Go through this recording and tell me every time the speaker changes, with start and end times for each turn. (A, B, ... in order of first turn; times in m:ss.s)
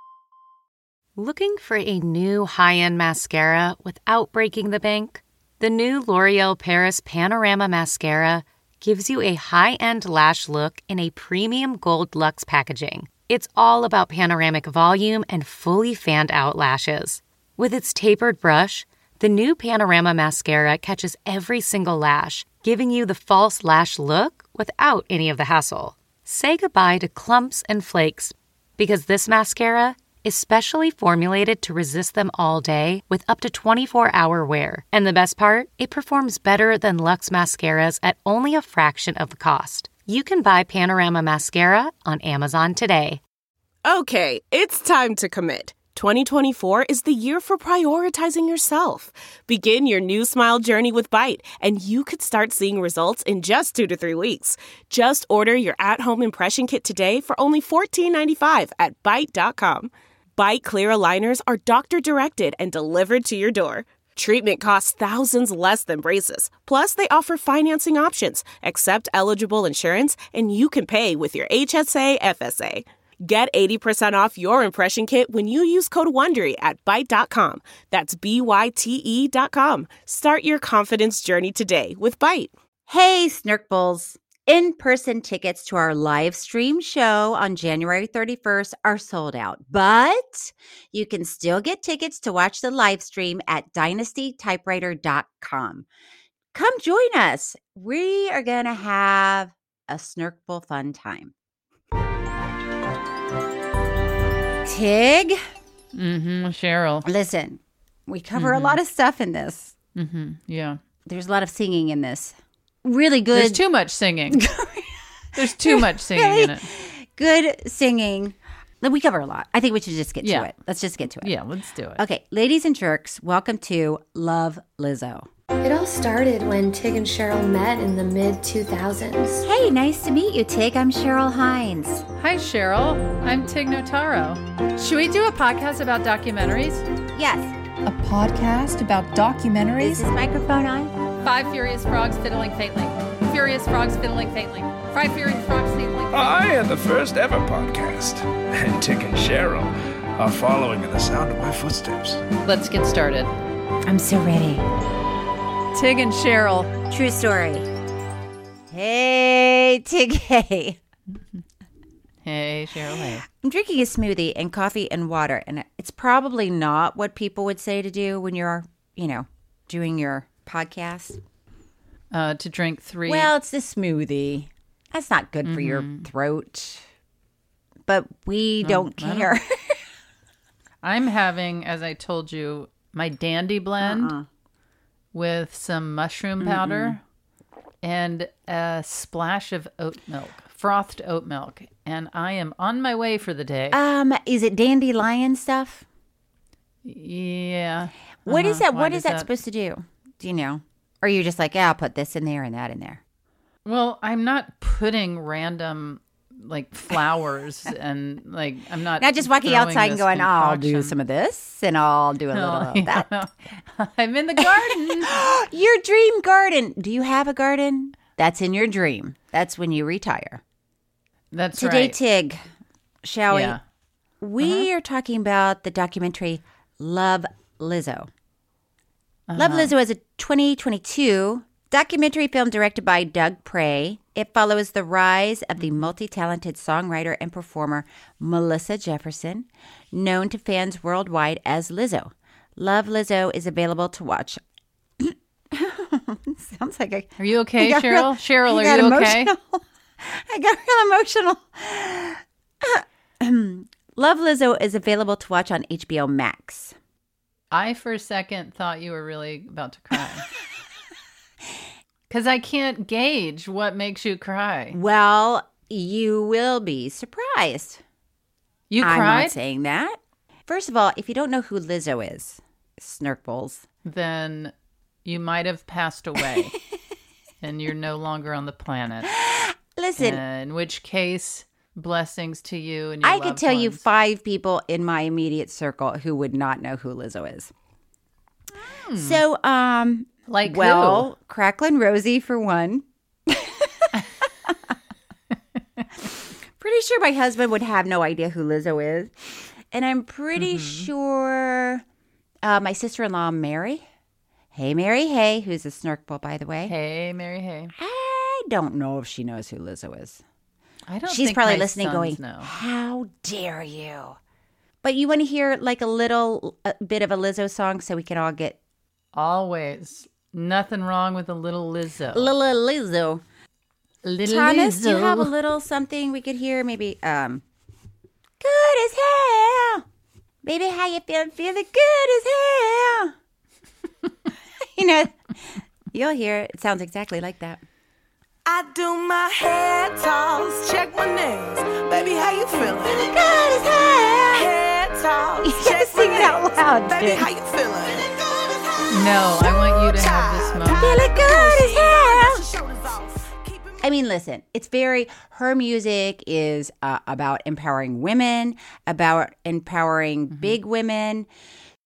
0:01.2-0:43.2 A
0:43.8-1:22.5 B
1:22.9-1:35.8 C
1:36.5-1:41.3 C
1:44.6-1:45.4 C
1:45.9-1:47.0 D
1:47.0-1:49.7 C
1:48.4-1:48.8 D
1:50.0-1:50.8 D
1:51.0-1:53.6 C
1:53.3-1:54.4 D
1:54.3-2:01.3 C
1:55.3-1:56.7 D
2:00.2-2:00.5 D
2:01.2-2:02.0 D
2:02.0-2:05.3 C
2:05.6-2:09.4 E
2:09.4-2:12.0 C
2:12.2-2:16.8 D
2:17.1-2:17.5 C
2:17.8-2:20.0 D
2:19.8-2:20.9 C
2:21.2-2:26.5 D
2:26.1-2:32.2 F
2:32.4-2:33.3 D
2:33.8-2:34.6 C
2:35.7-2:36.7 D
2:36.9-2:37.7 C
2:38.7-2:40.8 C
2:42.2-2:43.2 D
2:43.3-2:51.2 C
2:52.1-2:53.3 D
2:53.0-2:56.8 C
2:55.4-2:56.1 D
2:57.9-2:59.8 C
2:58.6-2:59.3 D
3:00.8-3:04.1 D
3:03.8-3:04.3 C
3:05.1-3:07.0 D
3:06.4-3:07.0 C
3:07.8-3:13.8 D
3:13.7-3:15.8 C
3:16.8-3:19.3 D
3:18.2-3:23.0 C
3:23.6-3:30.9 D
3:29.0-3:33.1 C
3:32.3-3:35.1 D
3:34.4-3:40.4 C
3:41.3-3:42.0 D
3:41.5-3:42.4 C
3:43.0-3:43.6 C
3:43.3-3:43.6 D
3:44.2-3:48.1 C
3:44.4-3:44.6 D
3:49.3-3:49.7 D
3:49.3-4:04.4 C
4:05.0-4:16.7 C
4:07.2-4:09.3 D
4:17.5-4:20.3 D
4:22.1-4:24.8 D
4:24.7-4:27.8 C
4:28.7-4:29.4 D
4:28.8-4:33.6 C
4:33.8-4:34.5 D
4:35.0-4:36.5 D
4:37.4-4:39.1 D
4:39.1-4:40.2 C
4:40.0-4:43.8 D
4:43.0-4:47.5 C
4:48.9-4:49.2 D
4:49.0-4:54.7 C
4:50.3-4:51.1 D
4:56.6-5:01.8 C
5:00.4-5:00.9 D
5:02.4-5:03.8 C
5:04.5-5:06.8 C
5:06.7-5:07.7 D
5:07.7-5:10.2 C
5:10.9-5:12.5 D
5:11.0-5:14.2 C
5:14.8-5:18.6 C
5:19.1-5:22.3 D
5:22.1-5:23.2 C
5:24.0-5:25.3 D
5:24.2-5:27.4 C
5:28.4-5:29.8 C
5:30.4-5:33.1 C
5:34.7-5:37.6 C
5:38.4-5:43.3 G
5:42.5-5:44.5 C
5:44.3-5:53.8 G
5:45.4-5:47.3 C
5:48.9-5:51.0 D
5:50.8-5:52.4 C
5:53.8-6:01.3 C
6:00.3-6:00.6 D